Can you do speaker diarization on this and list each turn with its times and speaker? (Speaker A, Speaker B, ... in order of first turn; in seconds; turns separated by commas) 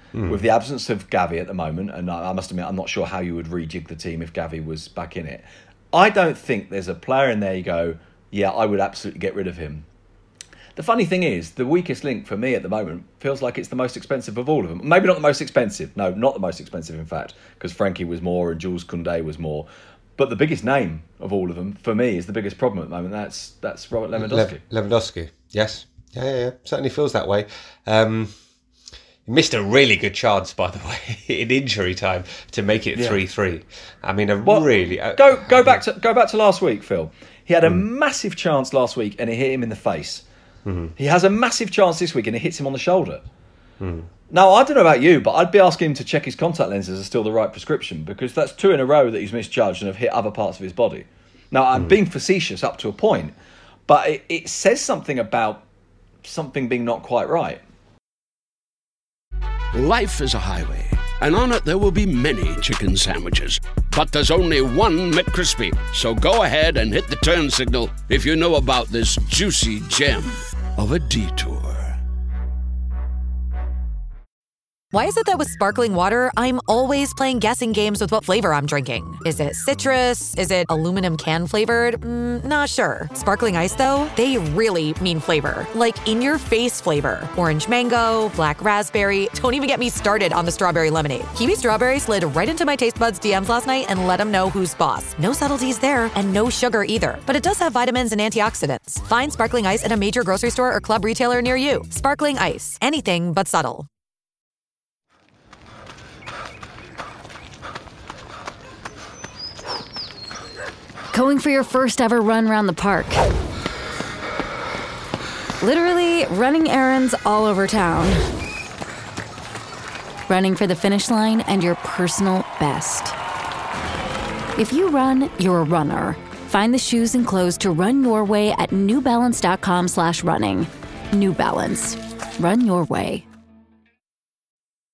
Speaker A: 0.1-0.4, Speaker B: 0.3-9.8, Speaker B: 10.8-24.6, Speaker A: 24.1-28.4, Speaker A: 29.2-35.8, Speaker B: 32.9-33.2, Speaker B: 34.4-40.2, Speaker A: 40.6-40.9, Speaker B: 41.0-43.2, Speaker A: 43.8-44.1, Speaker B: 44.3-53.3, Speaker B: 53.9-55.6, Speaker B: 56.2-57.6, Speaker C: 59.7-72.0, Speaker D: 74.9-103.9, Speaker E: 111.1-113.3, Speaker E: 115.6-118.2, Speaker E: 120.3-123.1, Speaker E: 124.5-133.2